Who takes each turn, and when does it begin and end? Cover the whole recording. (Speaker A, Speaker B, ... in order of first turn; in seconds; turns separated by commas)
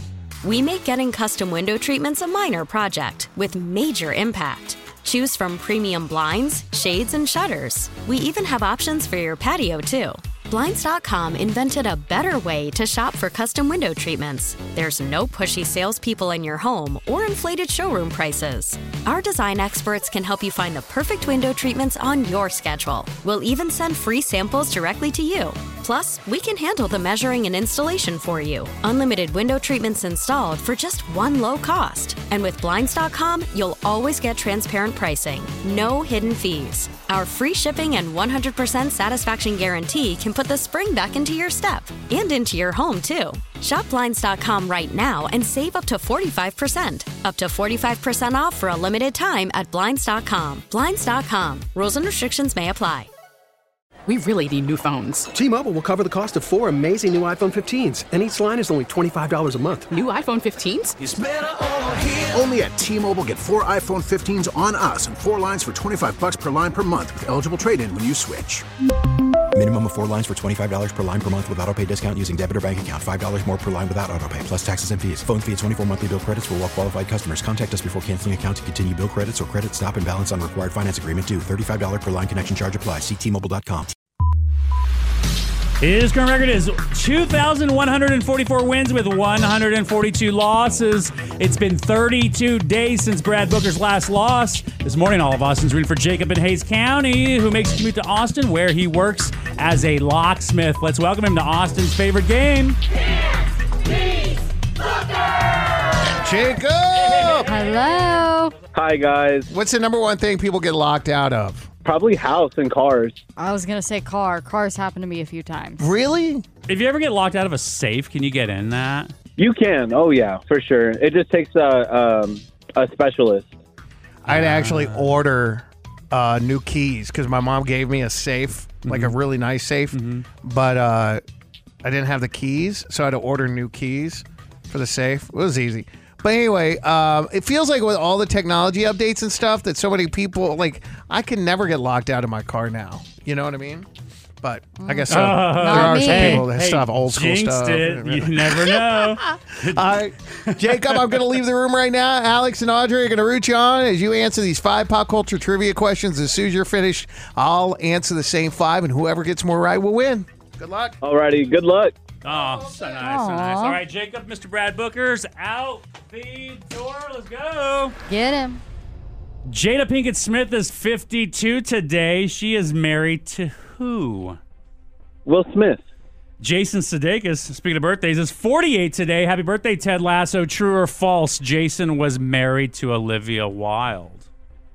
Speaker A: 0.4-53.1, Speaker B: 54.1-55.3, Speaker C: 55.3-59.9, Speaker B: 59.9-60.9, Speaker D: 61.3-68.6, Speaker E: 69.5-83.9, Speaker F: 85.8-102.8, Speaker G: 106.0-107.5, Speaker H: 107.5-108.5, Speaker I: 108.7-109.5, Speaker G: 109.5-111.7, Speaker I: 111.8-113.2, Speaker H: 113.4-115.9, Speaker G: 115.8-116.4, Speaker F: 116.7-119.1, Speaker I: 119.4-123.5, Speaker G: 124.2-131.2, Speaker F: 124.2-125.2, Speaker F: 128.8-129.2, Speaker F: 129.9-130.2, Speaker G: 131.8-143.9, Speaker G: 144.4-161.0, Speaker F: 145.1-151.2, Speaker H: 145.5-146.5, Speaker I: 161.0-162.0, Speaker F: 162.2-167.9, Speaker H: 162.9-163.8, Speaker H: 168.1-168.6, Speaker F: 169.5-174.4, Speaker I: 175.2-175.8, Speaker F: 176.4-184.3